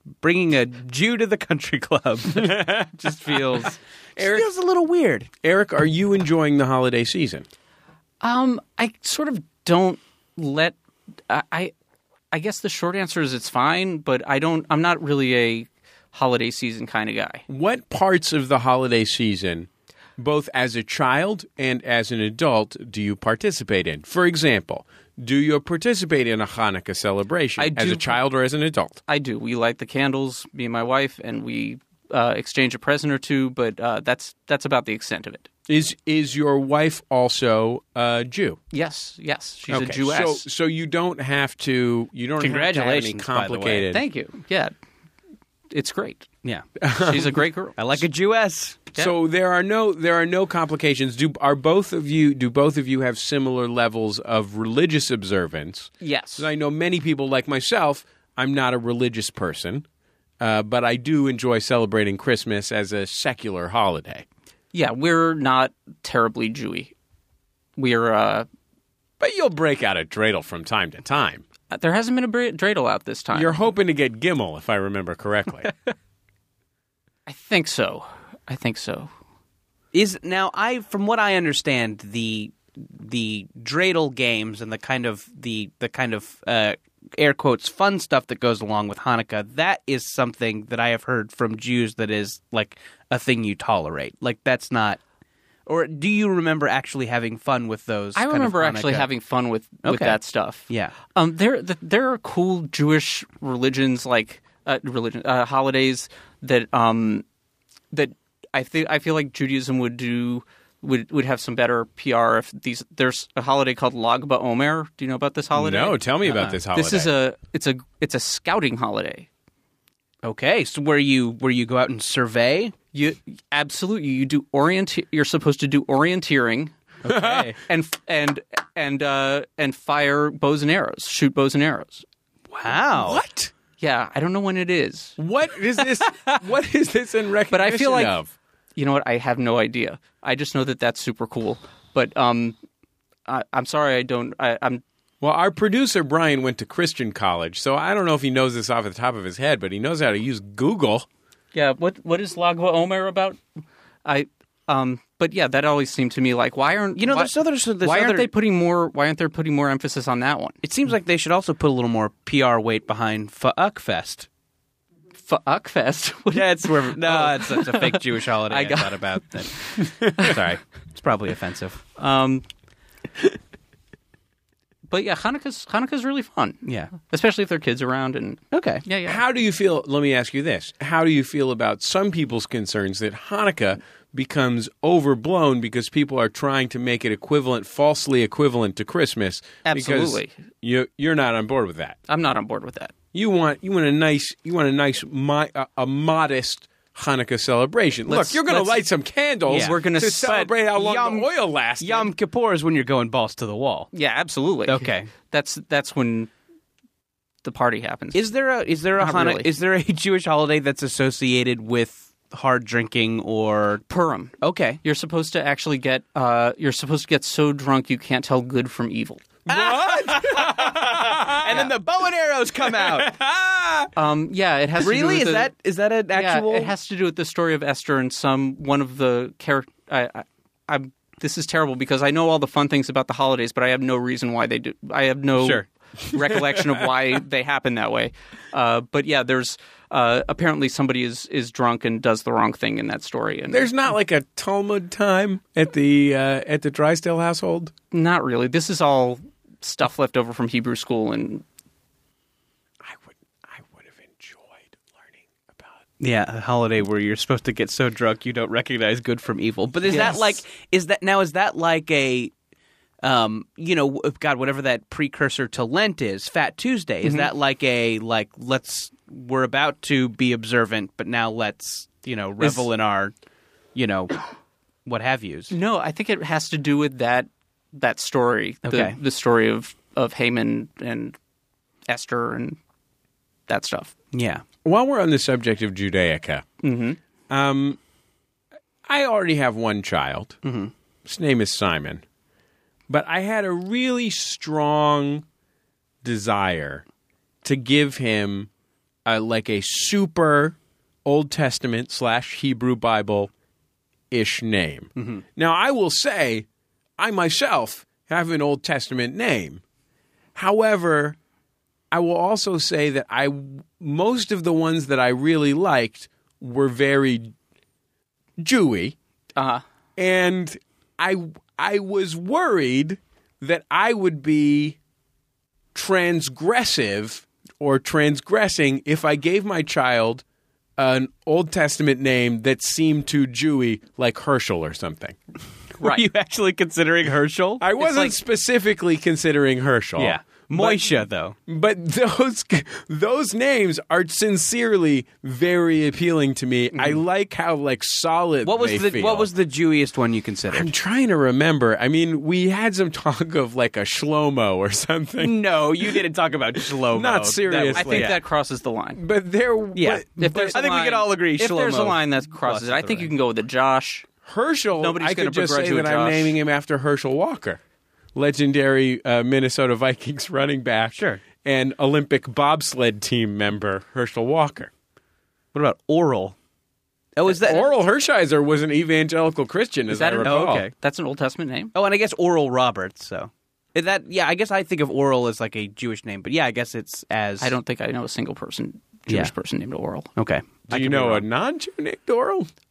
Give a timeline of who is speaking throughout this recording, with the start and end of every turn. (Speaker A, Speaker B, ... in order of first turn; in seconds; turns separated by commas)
Speaker A: 0.2-5.3, Speaker B: 2.3-3.4, Speaker B: 5.4-7.5, Speaker C: 8.2-10.7, Speaker C: 11.3-11.7, Speaker C: 12.3-17.4, Speaker B: 17.5-29.0, Speaker C: 27.6-28.2, Speaker C: 29.1-35.5, Speaker B: 35.7-38.6, Speaker C: 38.7-40.5, Speaker B: 39.7-44.0, Speaker A: 42.4-43.9, Speaker C: 43.9-44.7, Speaker C: 45.7-46.3, Speaker B: 46.8-47.4, Speaker C: 47.0-48.0, Speaker A: 47.8-48.8, Speaker B: 49.0-59.9, Speaker C: 56.0-56.5, Speaker B: 60.4-64.2, Speaker C: 64.7-66.9, Speaker C: 67.8-68.5, Speaker B: 69.2-71.4, Speaker C: 71.7-73.6, Speaker B: 73.3-75.7, Speaker C: 77.2-79.1, Speaker A: 79.9-95.0, Speaker A: 95.7-99.1, Speaker C: 98.2-107.2, Speaker A: 99.8-100.9, Speaker C: 107.9-119.3, Speaker B: 115.5-117.1, Speaker A: 120.2-122.7, Speaker C: 122.9-126.7, Speaker A: 127.0-127.6, Speaker B: 127.1-127.4, Speaker C: 127.3-132.0, Speaker A: 132.5-133.2, Speaker B: 132.9-133.5, Speaker C: 133.8-135.2, Speaker B: 135.2-138.3, Speaker C: 137.5-138.2, Speaker C: 138.8-142.6, Speaker C: 143.2-144.8, Speaker B: 145.2-151.1, Speaker C: 151.5-153.4, Speaker C: 154.0-160.6, Speaker A: 157.0-158.3, Speaker A: 160.6-164.3, Speaker C: 165.2-170.4, Speaker A: 166.3-171.8, Speaker C: 172.0-172.4, Speaker C: 174.9-179.2, Speaker A: 176.6-176.9, Speaker A: 178.5-178.8, Speaker B: 179.0-192.0, Speaker C: 189.6-190.3, Speaker C: 192.1-192.9, Speaker B: 193.1-202.1, Speaker C: 198.1-198.8, Speaker C: 199.5-200.4, Speaker A: 199.5-201.3, Speaker A: 201.8-203.9, Speaker C: 203.9-206.3, Speaker A: 204.7-205.1, Speaker C: 207.4-208.2, Speaker A: 208.1-213.8, Speaker C: 209.0-209.5, Speaker C: 213.9-219.2, Speaker A: 214.4-214.8, Speaker B: 219.4-221.7, Speaker A: 219.5-223.2, Speaker C: 221.4-221.7, Speaker B: 222.6-223.9, Speaker C: 223.9-225.5, Speaker A: 224.8-226.7, Speaker C: 226.1-243.7, Speaker A: 235.4-235.6, Speaker B: 236.2-236.6, Speaker B: 243.5-247.7, Speaker C: 247.9-251.4, Speaker B: 252.8-255.7, Speaker A: 256.0-262.3, Speaker C: 259.9-260.3, Speaker A: 263.0-273.1, Speaker C: 272.4-272.7, Speaker A: 273.7-274.1, Speaker A: 274.9-275.5, Speaker C: 275.5-281.1, Speaker A: 278.6-279.0, Speaker C: 281.9-282.6, Speaker C: 283.5-283.9, Speaker A: 284.1-284.4, Speaker B: 284.6-286.4, Speaker C: 286.6-287.0, Speaker B: 287.3-287.8, Speaker B: 288.9-290.4, Speaker A: 290.4-290.7, Speaker B: 291.0-292.0, Speaker B: 292.9-295.2, Speaker B: 296.0-296.8, Speaker B: 297.4-298.5, Speaker B: 299.1-303.3, Speaker B: 304.1-306.4, Speaker A: 304.9-305.2, Speaker B: 307.0-309.6, Speaker B: 310.3-311.2, Speaker B: 311.9-317.3, Speaker B: 318.4-318.9, Speaker C: 319.4-319.6, Speaker B: 320.0-324.8, Speaker B: 325.7-330.2, Speaker B: 330.8-335.2, Speaker A: 335.8-338.1, Speaker B: 337.6-349.3, Speaker A: 340.0-341.4, Speaker A: 348.4-350.7, Speaker B: 350.5-356.0, Speaker A: 355.2-358.2, Speaker B: 356.6-358.2, Speaker C: 357.7-359.0, Speaker B: 358.9-360.6, Speaker A: 359.8-363.1, Speaker C: 360.2-364.1, Speaker B: 364.2-367.6, Speaker C: 364.8-366.3, Speaker B: 368.1-374.7, Speaker A: 370.9-371.2, Speaker A: 375.5-376.3, Speaker A: 377.1-377.7, Speaker B: 377.3-380.6, Speaker C: 379.9-381.7, Speaker A: 380.2-380.7, Speaker A: 381.7-387.5, Speaker C: 387.4-390.1, Speaker A: 390.1-391.2, Speaker B: 390.7-392.5